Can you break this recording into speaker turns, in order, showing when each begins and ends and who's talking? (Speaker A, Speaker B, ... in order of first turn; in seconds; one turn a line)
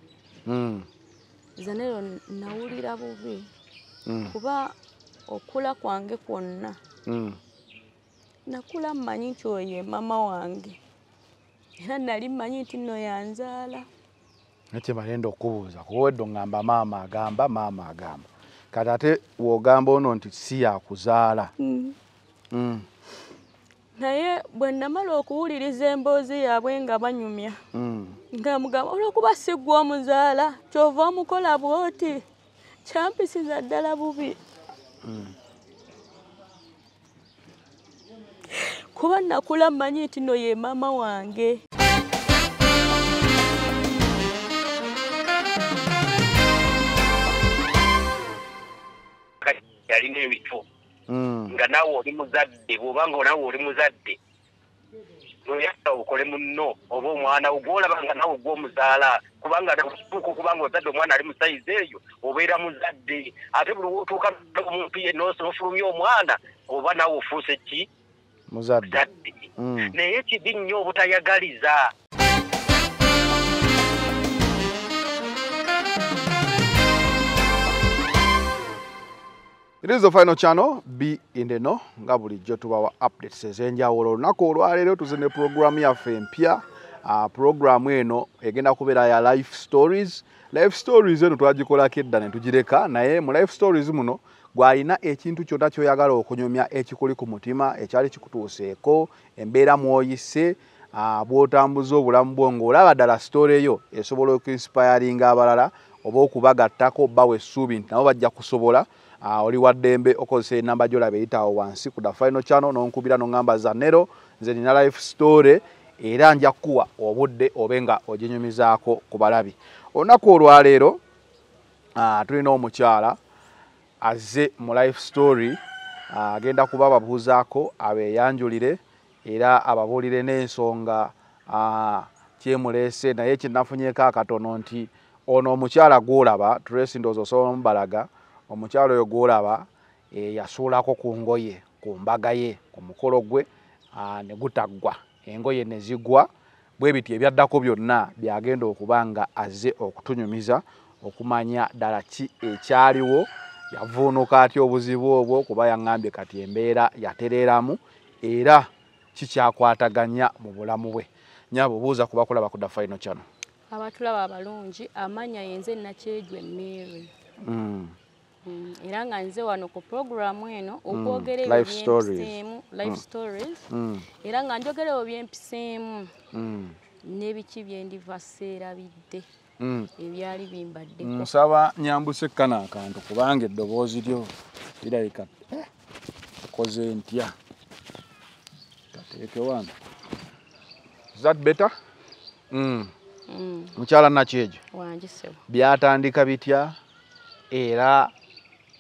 Speaker A: 0.5-0.9
Speaker B: 1.6-3.5
Speaker A: 4.1-4.3
Speaker B: 4.3-4.8
Speaker B: 5.3-6.8
Speaker A: 7.1-7.4
Speaker B: 8.5-10.8
Speaker B: 11.8-13.9
Speaker A: 14.7-21.5
Speaker B: 21.6-21.9
Speaker A: 22.5-22.9
Speaker B: 24.0-27.6
Speaker A: 27.7-28.2
Speaker B: 28.3-32.2
Speaker B: 32.9-34.4
Speaker A: 35.0-35.3
Speaker B: 38.5-41.6
Speaker C: 49.4-50.6
Speaker A: 51.1-51.6
Speaker C: 51.5-54.2
Speaker C: 55.5-67.9
Speaker A: 68.5-69.0
Speaker C: 68.9-71.9
Speaker A: 69.6-70.0
Speaker A: 79.8-121.0
Speaker A: 122.0-123.2
Speaker A: 124.0-163.3
Speaker B: 163.7-167.1
Speaker A: 167.4-168.0
Speaker B: 168.4-173.7
Speaker A: 170.9-173.0
Speaker A: 173.7-174.1
Speaker B: 174.2-176.1
Speaker A: 176.3-176.8
Speaker B: 177.0-179.3
Speaker A: 179.6-179.9
Speaker B: 180.0-181.3
Speaker A: 181.0-185.7
Speaker A: 186.5-187.3
Speaker A: 188.9-189.7
Speaker A: 191.2-191.7
Speaker A: 192.5-192.9
Speaker B: 193.3-193.8
Speaker A: 193.8-194.6
Speaker B: 194.7-195.4
Speaker A: 195.5-196.8
Speaker A: 197.5-198.1